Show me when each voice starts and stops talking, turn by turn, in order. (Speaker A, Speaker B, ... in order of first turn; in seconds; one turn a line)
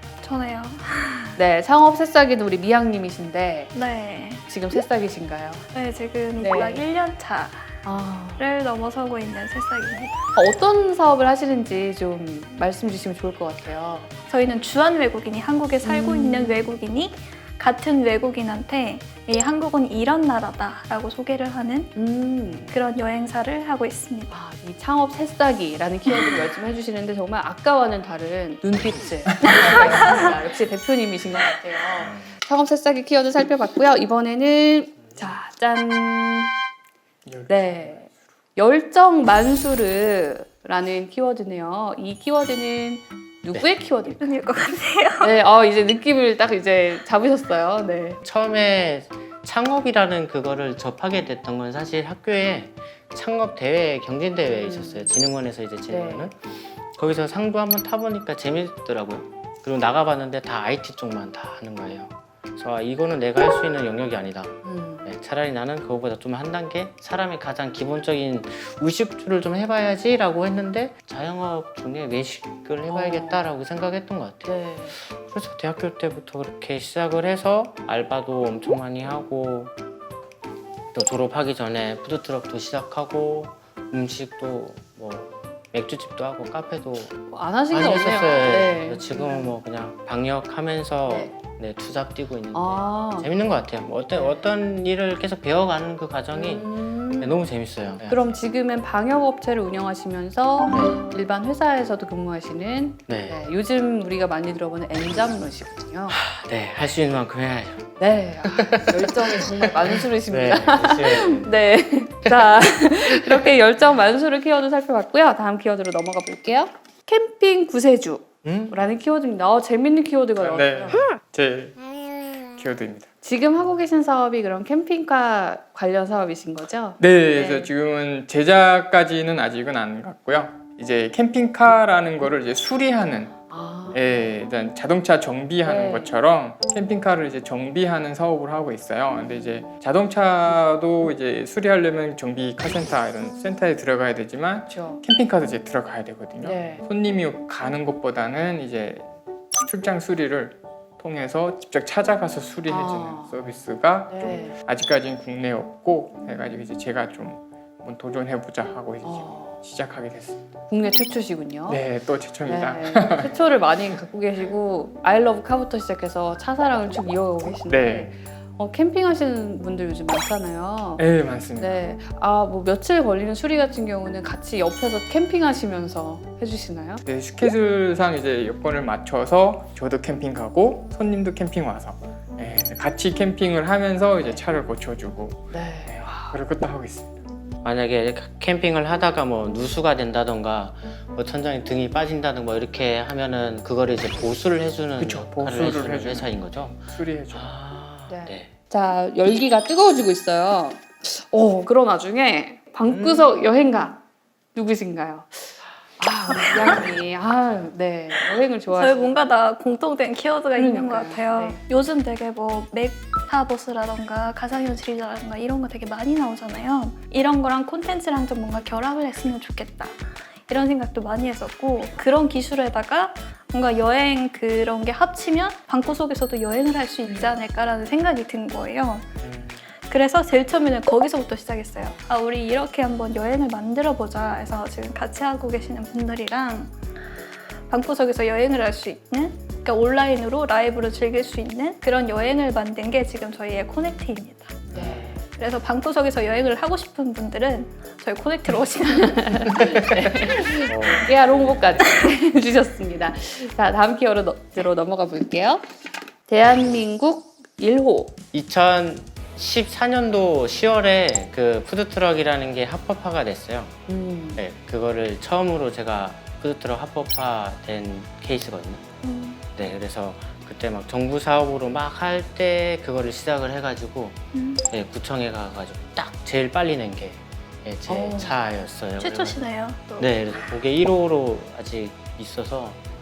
Speaker A: 0.2-1.4
Speaker B: 1.4-3.7
Speaker A: 3.7-4.4
Speaker B: 4.5-5.6
Speaker A: 5.7-7.8
Speaker B: 6.4-6.8
Speaker B: 7.8-8.4
Speaker A: 8.4-10.2
Speaker B: 10.3-14.1
Speaker A: 14.3-21.9
Speaker B: 15.8-16.7
Speaker B: 21.9-22.7
Speaker A: 22.7-24.4
Speaker B: 24.3-36.5
Speaker C: 32.0-32.2
Speaker D: 37.2-38.0
Speaker B: 37.5-44.4
Speaker A: 44.2-45.3
Speaker B: 45.2-48.2
Speaker C: 48.2-79.7
Speaker B: 54.5-55.1
Speaker B: 55.9-56.3
Speaker B: 64.6-65.1
Speaker B: 72.9-73.4
Speaker B: 74.4-74.9
Speaker C: 80.9-87.2
Speaker B: 87.3-89.5
Speaker C: 87.7-98.3
Speaker B: 91.1-91.3
Speaker B: 92.5-93.3
Speaker B: 94.1-94.5
Speaker B: 96.3-97.4
Speaker B: 98.1-106.2
Speaker C: 103.1-103.4
Speaker C: 106.1-111.6
Speaker B: 108.0-121.1
Speaker C: 118.4-118.8
Speaker D: 120.4-121.9
Speaker D: 122.4-123.1
Speaker B: 123.2-127.7
Speaker D: 127.0-133.4
Speaker B: 133.5-134.2
Speaker D: 133.9-160.4
Speaker B: 135.6-136.1
Speaker B: 139.1-139.6
Speaker B: 144.7-145.0
Speaker B: 146.4-146.8
Speaker B: 152.7-153.4
Speaker B: 154.1-154.5
Speaker B: 156.3-156.6
Speaker B: 159.0-159.6
Speaker B: 160.7-161.8
Speaker D: 161.7-163.3
Speaker B: 162.5-171.0
Speaker D: 167.7-168.1
Speaker D: 171.0-171.8
Speaker B: 171.6-177.0
Speaker D: 177.1-187.1
Speaker B: 185.5-186.4
Speaker C: 187.6-198.5
Speaker D: 195.0-197.5
Speaker B: 198.1-204.0
Speaker C: 202.8-203.3
Speaker B: 204.5-209.1
Speaker A: 206.5-206.8
Speaker A: 208.7-229.1
Speaker B: 210.6-211.6
Speaker B: 227.1-227.3
Speaker C: 229.2-229.6
Speaker A: 229.8-236.8
Speaker B: 231.8-232.0
Speaker A: 237.7-244.6
Speaker C: 244.7-245.2
Speaker B: 244.7-245.2
Speaker A: 245.3-249.7
Speaker B: 248.9-255.7
Speaker C: 250.6-251.6
Speaker B: 256.3-258.2
Speaker C: 258.3-263.7
Speaker B: 263.9-264.4
Speaker C: 264.4-268.8
Speaker A: 269.0-269.4
Speaker C: 269.5-274.2
Speaker A: 274.3-274.6
Speaker C: 274.7-279.4
Speaker B: 277.9-278.4
Speaker A: 279.0-280.5
Speaker C: 280.0-282.8